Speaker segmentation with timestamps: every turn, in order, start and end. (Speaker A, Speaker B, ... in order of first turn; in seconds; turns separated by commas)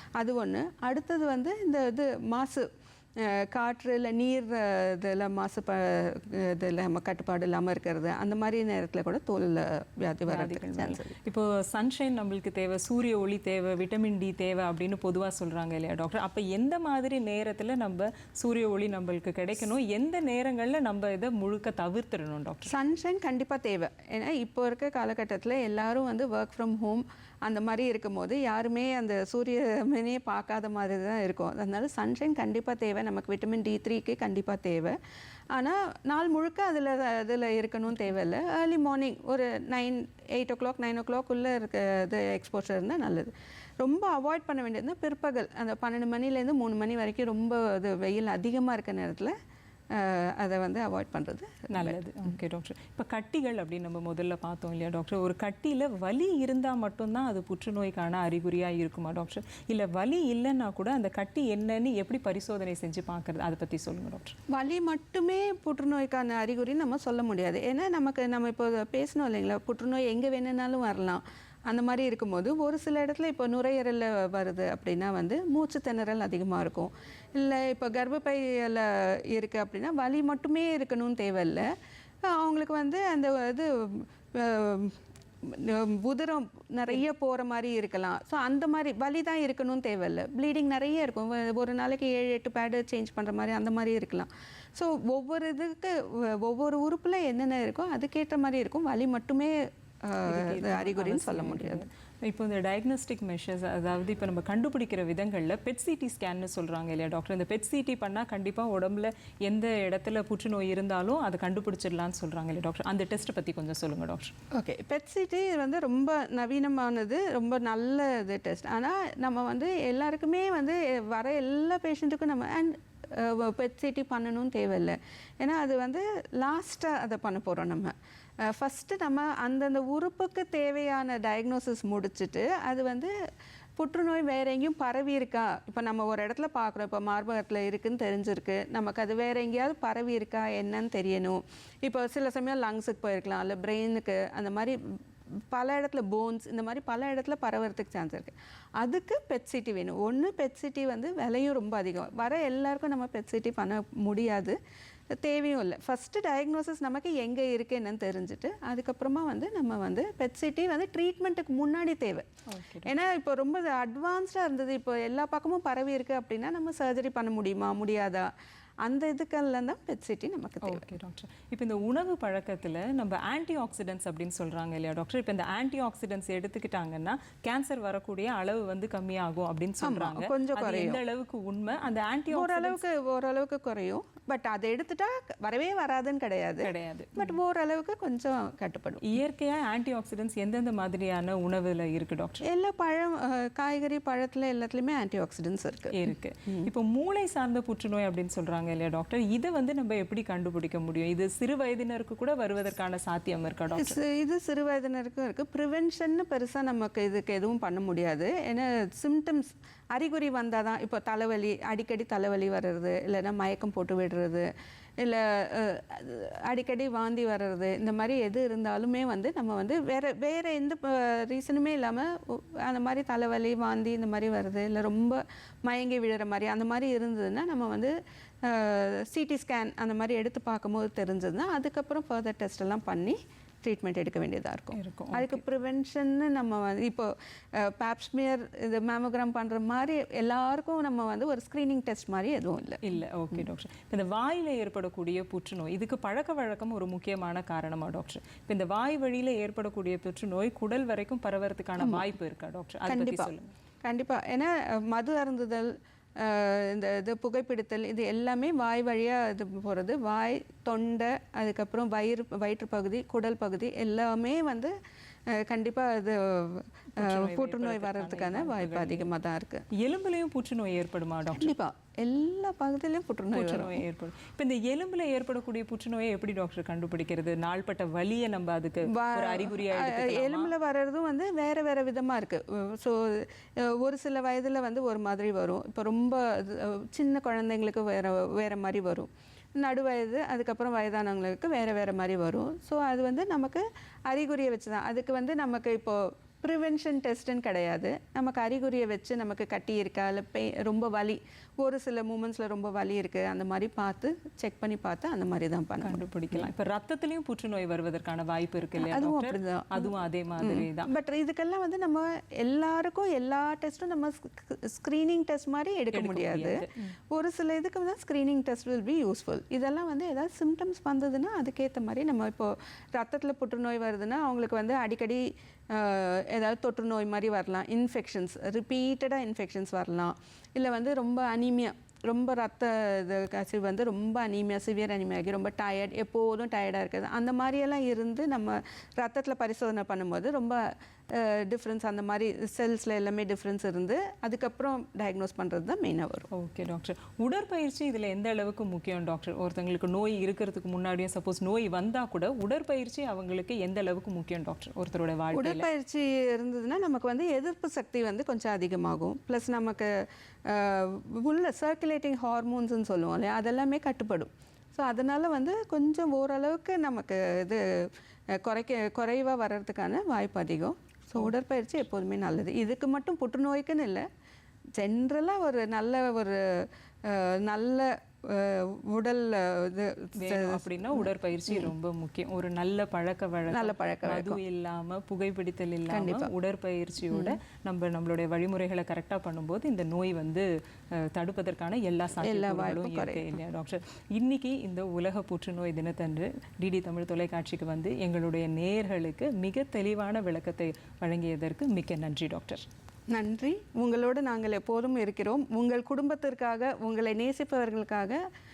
Speaker A: 0.2-11.1, Speaker B: 10.3-22.7, Speaker A: 22.7-35.0, Speaker A: 35.5-49.3, Speaker A: 49.9-52.0, Speaker B: 51.7-64.3, Speaker A: 64.5-101.8, Speaker B: 100.2-114.3, Speaker A: 114.5-133.1, Speaker A: 133.8-154.6, Speaker A: 155.1-162.3, Speaker B: 162.5-162.9, Speaker A: 162.8-168.3, Speaker A: 168.8-170.9, Speaker B: 170.6-182.8, Speaker A: 179.8-181.0, Speaker A: 182.3-189.1, Speaker B: 186.6-187.4, Speaker B: 189.0-192.4, Speaker A: 192.4-196.7, Speaker B: 195.9-204.0, Speaker A: 203.8-242.8, Speaker B: 234.7-235.4, Speaker B: 242.8-253.5, Speaker A: 251.8-252.1, Speaker A: 252.9-253.3, Speaker A: 253.8-264.7, Speaker A: 265.3-269.7, Speaker B: 267.0-269.1, Speaker B: 269.7-271.5, Speaker A: 271.4-273.8, Speaker B: 273.3-280.5, Speaker A: 278.9-306.5, Speaker B: 305.8-310.9, Speaker A: 308.8-346.3, Speaker B: 315.9-316.9, Speaker B: 346.3-355.7, Speaker A: 355.3-374.1, Speaker A: 374.8-381.7, Speaker B: 380.2-402.7, Speaker A: 383.5-384.4, Speaker A: 385.9-386.3, Speaker A: 387.1-387.4, Speaker A: 392.2-393.4, Speaker A: 403.1-408.2